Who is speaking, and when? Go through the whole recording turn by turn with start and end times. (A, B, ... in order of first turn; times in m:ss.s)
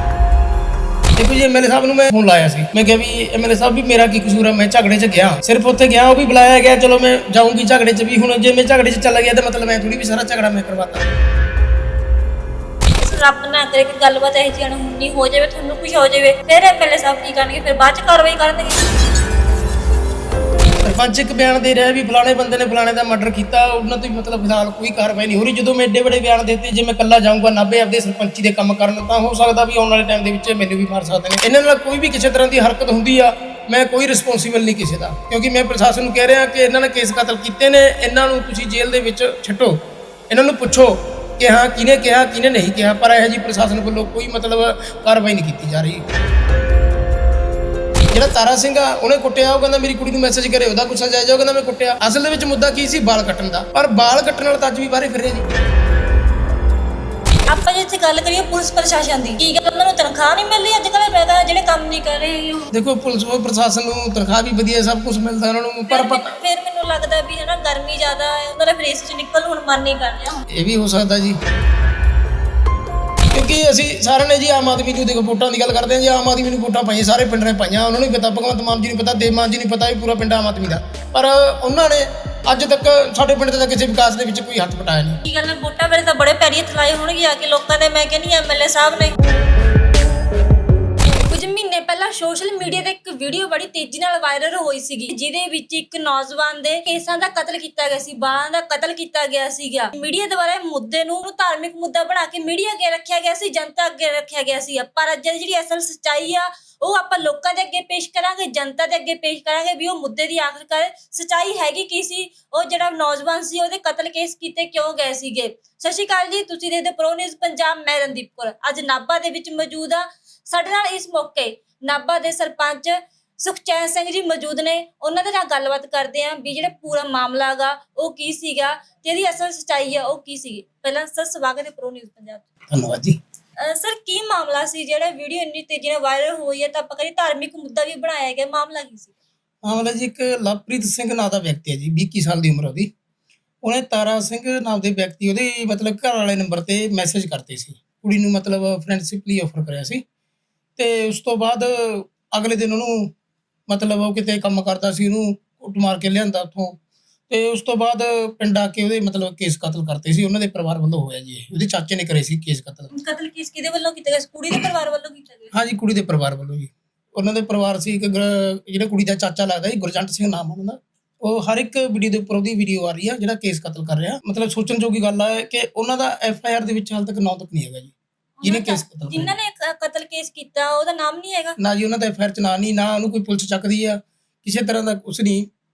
0:01.2-0:11.0 A
0:13.0-0:18.9 B
0:20.8-0:46.1 A
0:48.1-0:55.5 A
0:57.5-1:02.7 B
1:02.7-1:06.4 A
1:05.9-1:10.4 B
1:10.5-1:11.4 A
1:13.3-1:25.2 A
1:25.2-1:29.2 B
1:31.2-2:12.4 B
2:12.7-2:13.2 A
2:13.6-2:19.1 B
2:19.6-2:22.9 A
2:23.6-2:30.0 A
2:30.8-2:33.1 A
2:33.7-2:36.8 A
2:37.3-2:42.9 A
2:42.9-2:45.5 B
2:45.5-2:57.9 A
2:58.4-3:01.6 B
2:58.4-2:59.3 A
3:01.6-3:05.5 A